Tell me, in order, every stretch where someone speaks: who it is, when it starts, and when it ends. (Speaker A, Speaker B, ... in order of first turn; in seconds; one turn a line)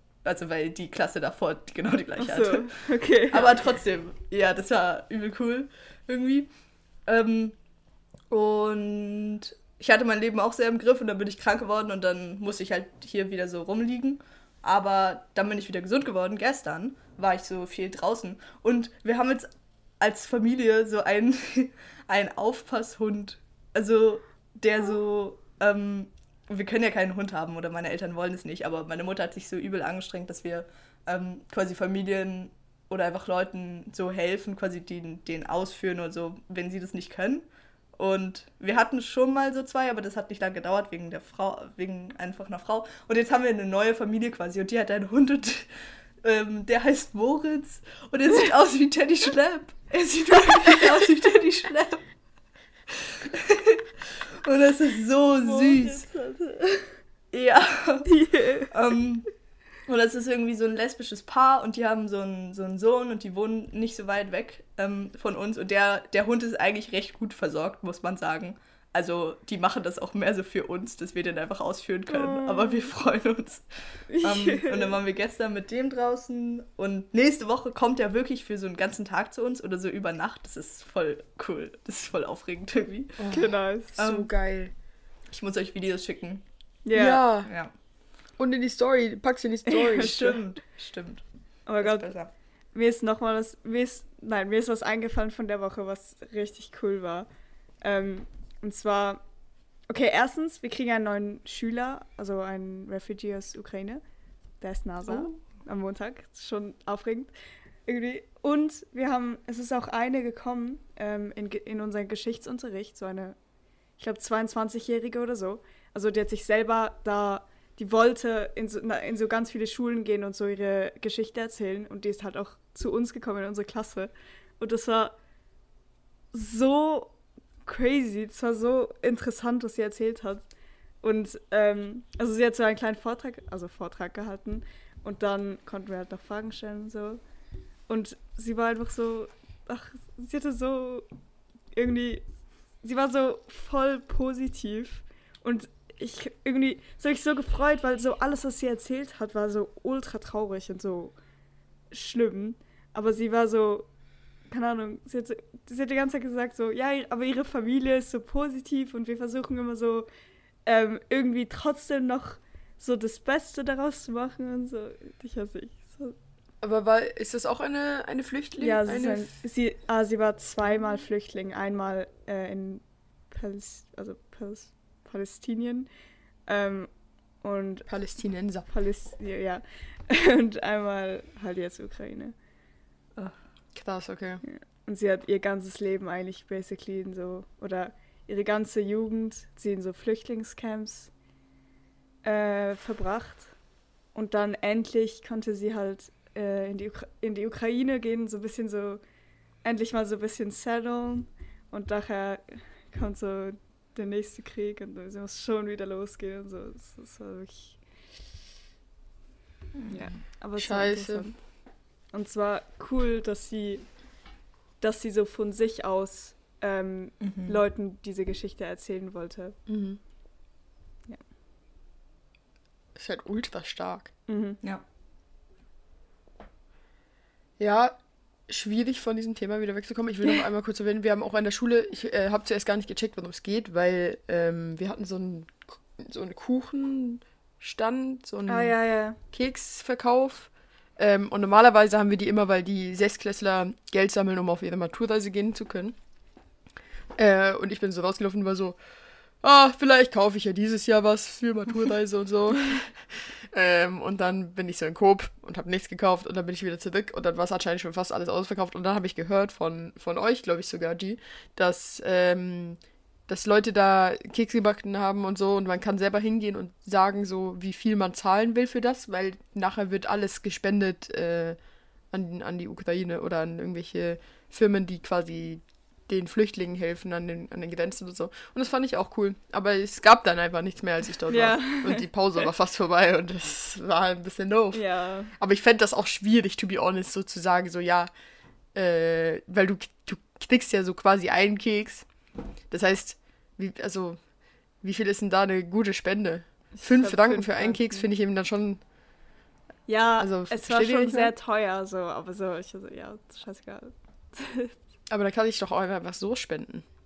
Speaker A: 0.2-6.5
Speaker B: 2.2-3.6
Speaker A: 7.0-7.5
Speaker A: 8.3-19.5
Speaker A: 20.0-37.5
Speaker A: 38.0-45.7
Speaker A: 46.2-52.0
Speaker B: 50.0-50.9
Speaker A: 53.2-56.1
Speaker B: 55.4-57.0
Speaker A: 57.3-58.1
Speaker B: 58.1-58.7
Speaker A: 58.7-59.3
Speaker A: 59.8-73.6
Speaker B: 72.1-72.9
Speaker B: 74.1-74.9
Speaker A: 74.2-83.2
Speaker C: 83.2-84.7
Speaker B: 83.3-83.9
Speaker A: 84.0-84.3
Speaker A: 85.3-86.4
Speaker B: 86.8-87.2
Speaker C: 86.9-87.5
Speaker A: 87.4-87.7
Speaker C: 88.4-90.2
Speaker B: 89.7-90.4
Speaker A: 90.0-91.2
Speaker B: 91.7-92.1
Speaker A: 91.8-92.3
Speaker B: 92.7-97.3
Speaker B: 97.8-99.2
Speaker B: 99.9-104.0
Speaker B: 104.6-107.3
Speaker A: 105.1-105.4
Speaker B: 107.8-113.4
Speaker B: 114.0-125.2
Speaker B: 126.3-130.5
Speaker B: 131.0-137.2
Speaker B: 137.9-141.1
Speaker B: 141.7-142.2
Speaker B: 142.8-151.2
Speaker B: 151.9-153.9
Speaker B: 154.5-160.1
Speaker B: 160.7-166.2
Speaker C: 166.6-169.3
Speaker B: 168.6-175.9
Speaker B: 176.5-176.9
Speaker B: 177.4-177.9
Speaker C: 177.9-178.7
Speaker B: 178.7-182.3
Speaker C: 183.7-184.4
Speaker B: 184.4-191.1
Speaker B: 192.2-193.5
Speaker B: 194.1-199.0
Speaker B: 199.6-207.8
Speaker A: 209.7-210.1
Speaker B: 209.9-211.4
Speaker C: 210.6-211.3
Speaker B: 212.1-214.0
Speaker B: 214.8-219.6
Speaker A: 217.2-217.6
Speaker C: 219.7-220.0
Speaker C: 222.9-224.1
Speaker B: 224.3-224.6
Speaker C: 227.6-227.9
Speaker C: 228.5-238.7
Speaker B: 238.5-239.2
Speaker C: 239.3-245.9
Speaker C: 247.2-248.8
Speaker C: 249.4-271.6
Speaker C: 272.1-284.8
Speaker B: 281.3-282.1
Speaker B: 284.7-285.3
Speaker C: 285.4-288.1
Speaker C: 288.7-292.1
Speaker C: 292.7-294.2
Speaker C: 294.8-298.8
Speaker B: 296.7-298.1
Speaker B: 299.9-304.7
Speaker C: 300.2-301.3
Speaker C: 305.1-306.8